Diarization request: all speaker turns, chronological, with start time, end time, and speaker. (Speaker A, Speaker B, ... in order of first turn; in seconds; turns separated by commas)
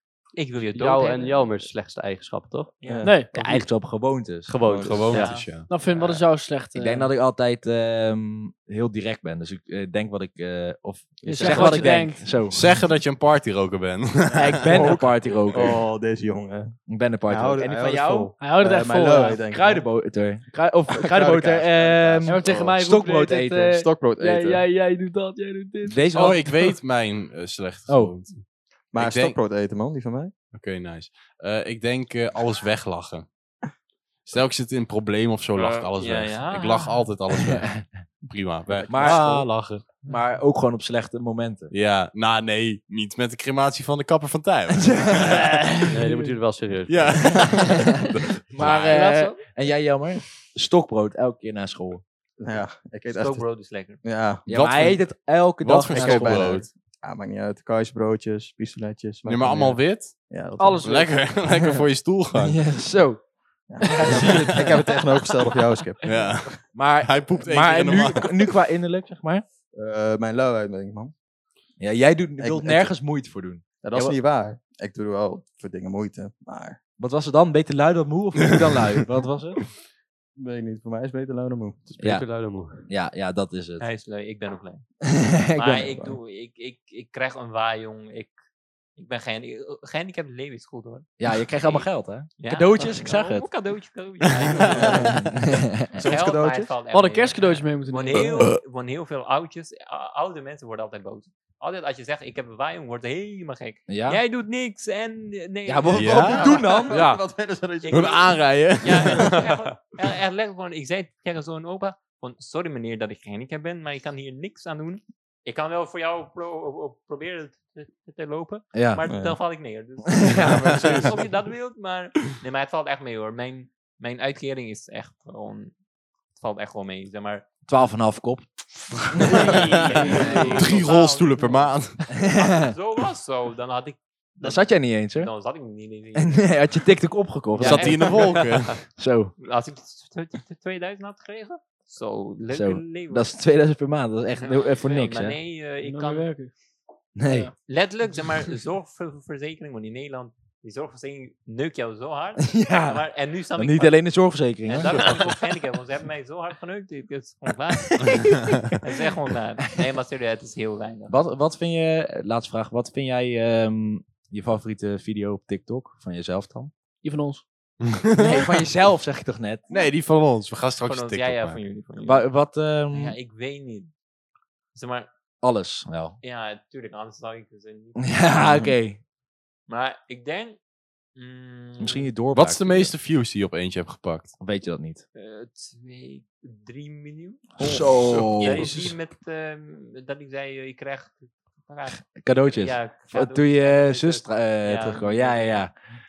Speaker A: 0.3-1.5, Speaker B: 0.7-2.8, Speaker A: 2.8-3.1, Speaker C: 2.9-3.1, Speaker D: 3.0-3.3, Speaker E: 3.3-5.3, Speaker B: 3.3-5.4, Speaker C: 4.7-5.0, Speaker F: 4.7-6.1, Speaker A: 5.1-5.5, Speaker D: 5.7-7.1, Speaker E: 6.7-12.6, Speaker C: 11.2-12.1, Speaker D: 11.2-12.3, Speaker F: 12.4-15.1, Speaker E: 14.3-15.8, Speaker C: 14.7-16.8, Speaker E: 16.9-18.3, Speaker C: 17.3-20.0, Speaker D: 18.4-19.4, Speaker E: 19.4-23.8, Speaker C: 21.0-22.8, Speaker D: 22.2-26.7, Speaker C: 23.7-24.6, Speaker E: 25.8-26.5, Speaker F: 26.1-29.4, Speaker E: 27.9-28.4, Speaker C: 28.9-30.3, Speaker F: 30.5-33.3, Speaker F: 34.2-39.9, Speaker A: 35.5-37.1, Speaker E: 37.5-37.9, Speaker C: 38.7-39.4, Speaker E: 38.9-41.7, Speaker F: 41.7-45.5, Speaker E: 44.8-46.0, Speaker B: 45.9-47.8, Speaker D: 45.9-46.4, Speaker F: 46.9-49.0, Speaker E: 48.5-52.0, Speaker A: 48.7-49.3, Speaker D: 48.9-49.3, Speaker C: 52.4-53.5, Speaker A: 53.1-54.0, Speaker C: 54.0-54.5, Speaker E: 54.5-56.6, Speaker F: 54.5-55.1, Speaker F: 55.6-56.7, Speaker C: 55.9-61.1, Speaker F: 59.2-60.3, Speaker D: 60.6-61.1, Speaker F: 60.8-62.6, Speaker E: 62.4-63.2, Speaker C: 63.7-66.6, Speaker E: 63.9-64.7, Speaker F: 66.0-68.4, Speaker E: 66.7-69.4, Speaker C: 69.7-71.1, Speaker E: 71.8-74.2, Speaker C: 72.4-72.9, Speaker C: 73.8-76.8, Speaker E: 77.0-79.6, Speaker C: 80.4-82.1, Speaker E: 82.0-83.8, Speaker B: 82.0-82.9, Speaker A: 83.8-84.9, Speaker E: 85.1-85.9, Speaker A: 85.5-88.3, Speaker C: 85.8-86.1, Speaker A: 89.0-106.7, Speaker E: 91.2-93.5, Speaker C: 94.8-95.1, Speaker E: 94.8-96.0, Speaker C: 95.9-96.7, Speaker D: 96.9-98.5, Speaker E: 103.9-104.2, Speaker E: 105.7-107.1, Speaker F: 105.9-106.5, Speaker C: 106.1-108.5, Speaker B: 106.9-107.2, Speaker A: 107.8-125.7, Speaker F: 107.9-109.5, Speaker E: 118.7-119.0, Speaker C: 119.1-119.4, Speaker E: 120.2-121.2, Speaker C: 120.7-121.1, Speaker A: 126.3-127.4, Speaker E: 127.7-130.7, Speaker A: 129.2-136.6, Speaker F: 130.3-132.1, Speaker E: 132.2-132.7, Speaker E: 134.4-135.3, Speaker E: 136.2-139.3, Speaker A: 137.5-138.4, Speaker F: 137.6-138.8, Speaker A: 139.4-143.3, Speaker E: 142.5-145.4, Speaker A: 144.4-146.3, Speaker D: 145.8-146.5, Speaker E: 147.2-147.5, Speaker D: 147.3-147.5, Speaker A: 147.7-154.0, Speaker E: 152.4-155.3, Speaker A: 154.6-161.2, Speaker E: 161.1-166.7, Speaker D: 167.0-167.4, Speaker F: 167.8-168.5, Speaker E: 168.2-169.6, Speaker F: 169.7-171.6, Speaker A: 170.8-172.3, Speaker E: 172.0-173.2, Speaker A: 172.9-173.9, Speaker A: 174.7-175.1, Speaker E: 175.4-176.2, Speaker A: 176.2-178.6, Speaker E: 178.0-179.0, Speaker A: 179.7-180.6, Speaker A: 181.2-182.1, Speaker E: 181.8-182.9, Speaker F: 182.3-184.3, Speaker E: 184.4-185.0, Speaker A: 185.1-187.6, Speaker E: 187.6-188.8, Speaker C: 187.6-188.8, Speaker A: 188.1-195.7, Speaker E: 192.1-195.7